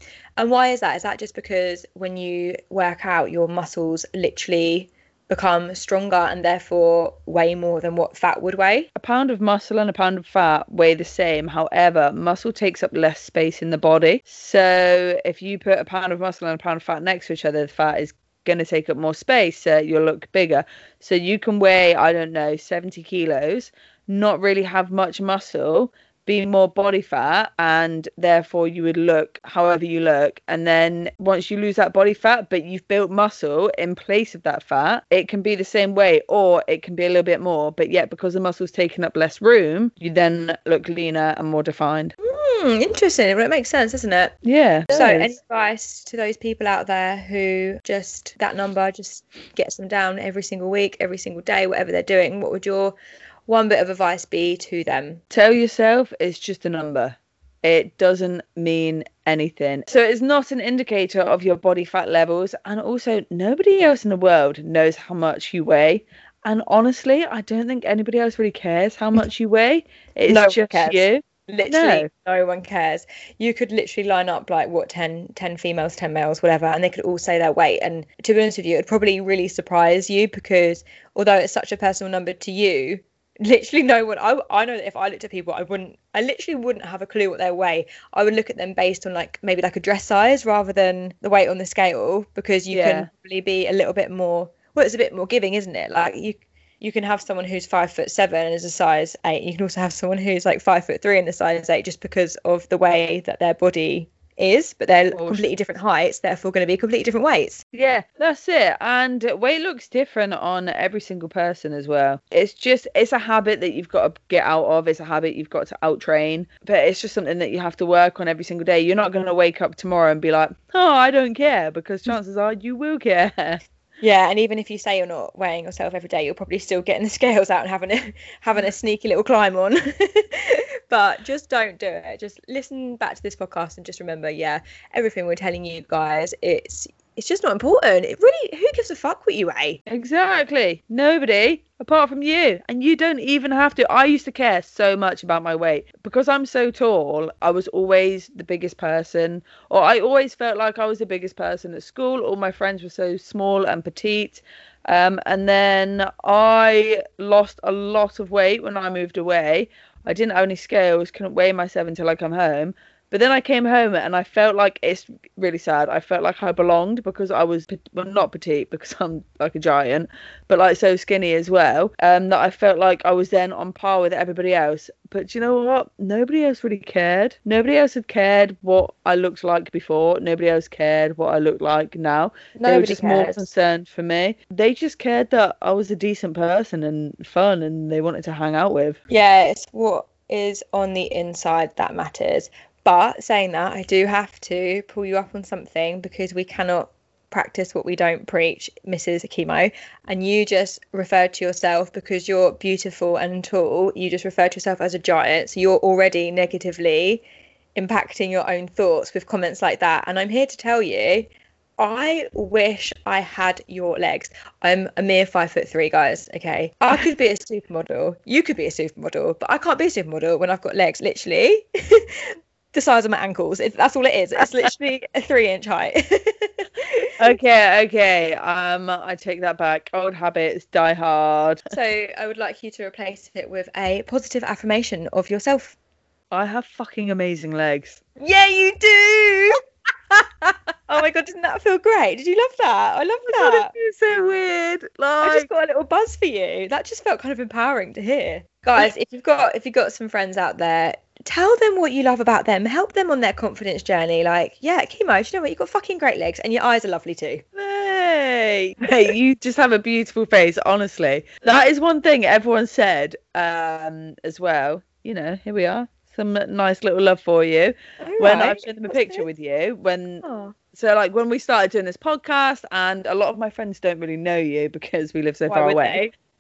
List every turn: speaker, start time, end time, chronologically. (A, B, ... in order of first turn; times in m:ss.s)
0:00.4-0:08.9 A
0:09.0-0:42.1 B
0:42.2-0:44.4 A
0:44.4-0:45.3 B
0:44.9-0:55.2 A
0:55.3-1:12.1 B
1:10.3-1:47.6 A
1:32.7-1:33.1 B
1:45.1-1:45.4 B
1:47.7-2:03.6 B
2:04.0-2:19.8 A
2:19.9-3:09.0 B
3:02.6-3:03.5 A
3:09.1-3:27.2 A
3:27.8-3:47.3 A
3:47.2-3:51.6 B
3:51.7-3:55.8 A
3:56.3-3:58.0 B
3:58.2-3:59.6 A
4:00.1-4:03.7 A
4:03.3-4:05.5 B
4:05.2-4:17.4 A
4:17.6-4:36.0 B
4:28.0-4:29.3 A
4:30.2-4:30.6 A
4:35.5-4:36.1 A